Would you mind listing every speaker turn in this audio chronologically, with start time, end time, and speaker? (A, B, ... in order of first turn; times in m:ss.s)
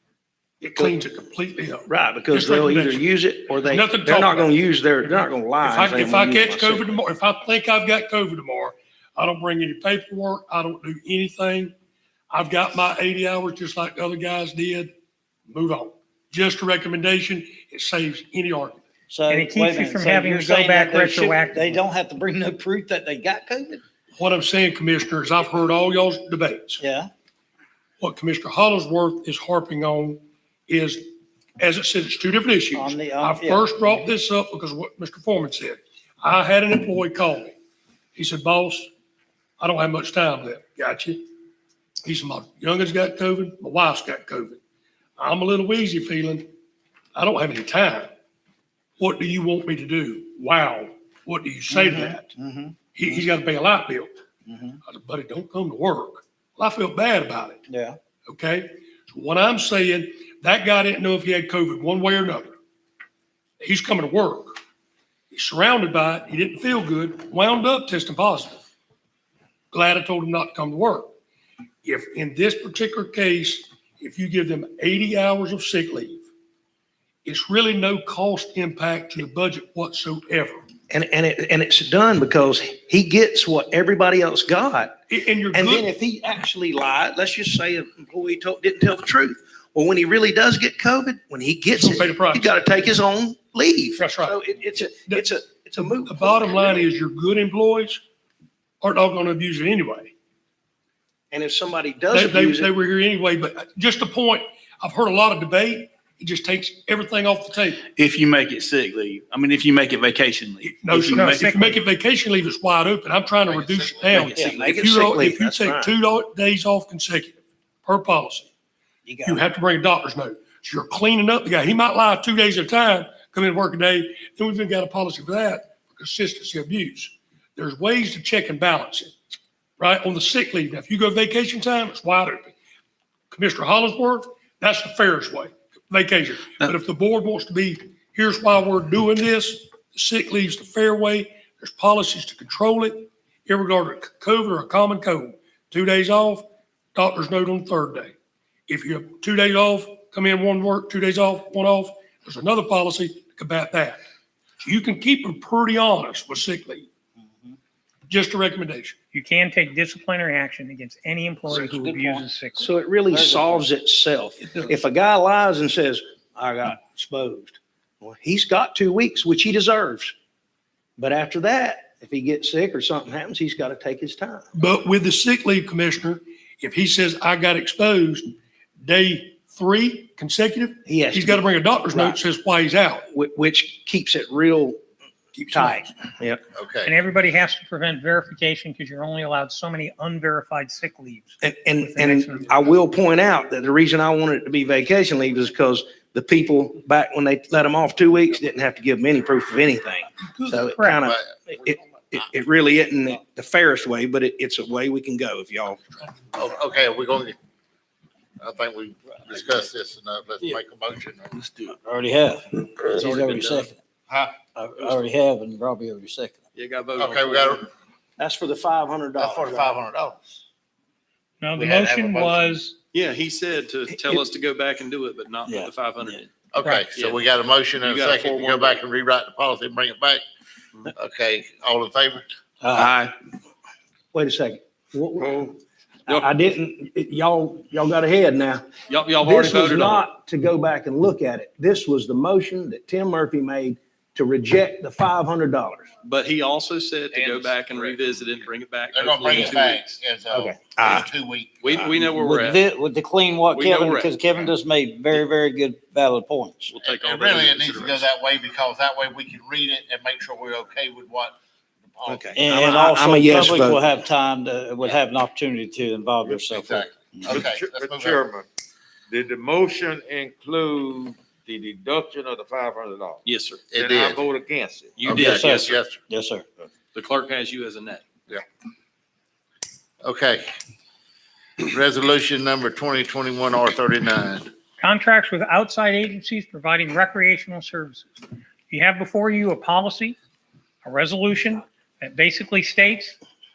0:00.6-0:11.7 A
0:01.9-0:06.9 B
0:12.3-0:14.9 A
0:15.5-0:18.8 A
0:19.1-0:23.8 C
0:19.3-0:21.7 D
0:24.2-0:26.8 A
0:26.8-0:27.1 C
0:28.0-0:37.6 A
0:32.7-0:33.7 C
0:38.1-0:38.9 A
0:39.6-0:41.2 A
0:42.0-0:44.6 A
0:45.2-0:46.5 A
0:47.1-0:48.1 A
0:49.0-0:52.3 A
0:51.7-0:53.2 C
0:52.9-0:54.2 A
0:54.4-0:54.8 C
0:54.8-0:57.6 A
0:57.7-0:58.0 C
0:58.3-1:02.5 A
1:03.6-1:04.6 A
1:05.3-1:08.6 A
1:09.7-1:11.1 A
1:11.8-1:16.2 A
1:17.2-1:20.6 A
1:20.9-1:25.0 B
1:25.1-1:25.9 A
1:25.5-1:36.9 B
1:31.7-1:32.5 A
1:34.0-1:34.4 A
1:36.0-1:38.0 A
1:38.8-1:40.1 A
1:41.3-1:42.7 B
1:42.1-1:47.8 A
1:47.8-1:51.8 E
1:50.6-1:58.5 A
1:51.1-1:51.7 D
1:53.4-1:54.3 F
1:54.1-1:54.6 C
1:54.2-1:55.9 B
1:59.0-1:59.4 C
1:59.2-2:09.1 A
2:09.8-2:12.5 A
2:13.3-2:28.1 A
2:28.7-2:34.0 A
2:34.6-2:36.9 A
2:38.1-2:39.0 A
2:39.1-2:42.7 D
2:41.5-2:42.3 C
2:42.6-2:50.1 B
2:43.1-2:43.6 C
2:51.0-2:54.4 B
2:54.5-3:03.1 A
3:00.8-3:02.2 B
3:03.1-3:04.8 B
3:05.4-3:05.9 A
3:05.5-3:06.4 B
3:06.5-3:07.0 F
3:06.8-3:12.8 D
3:11.4-3:25.8 B
3:20.4-3:21.0 D
3:21.0-3:21.3 F
3:26.3-3:27.4 F
3:28.4-3:31.4 F
3:31.8-3:33.8 C
3:32.9-3:33.7 G
3:34.5-3:36.4 C
3:36.5-3:37.6 G
3:37.0-3:37.7 F
3:38.2-3:39.8 B
3:39.2-3:40.3 F
3:41.4-3:42.8 D
3:41.6-3:42.6 F
3:42.9-3:48.8 G
3:45.4-3:46.2 C
3:46.5-3:50.2 F
3:50.9-3:52.2 F
3:52.6-3:52.9 C
3:52.8-3:53.1 G
3:54.1-3:55.5 B
3:56.0-3:58.6 B
3:58.9-4:00.0 G
3:59.2-4:05.9 B
4:06.0-4:10.0 G
4:07.1-4:08.0 H
4:08.9-4:11.9 F
4:09.3-4:09.6 B
4:10.3-4:11.1 B
4:11.6-4:12.6 G
4:12.1-4:16.7 C
4:13.5-4:14.1 G
4:16.7-4:18.1 G
4:16.8-4:21.4 F
4:21.9-4:22.3 F
4:22.0-4:23.8 B
4:22.3-4:27.4 C
4:26.2-4:26.6 H
4:26.5-4:28.3 F
4:27.3-4:28.5 H
4:29.1-4:35.7 H
4:33.2-4:33.6 G
4:33.7-4:34.2 F
4:35.0-4:35.7 G
4:35.0-4:36.0 F
4:35.1-4:36.4 C
4:36.9-4:38.0 G
4:40.0-4:40.4 F
4:41.6-4:44.5 F
4:44.8-4:48.1 D
4:48.7-4:50.2 D
4:50.8-4:53.2 D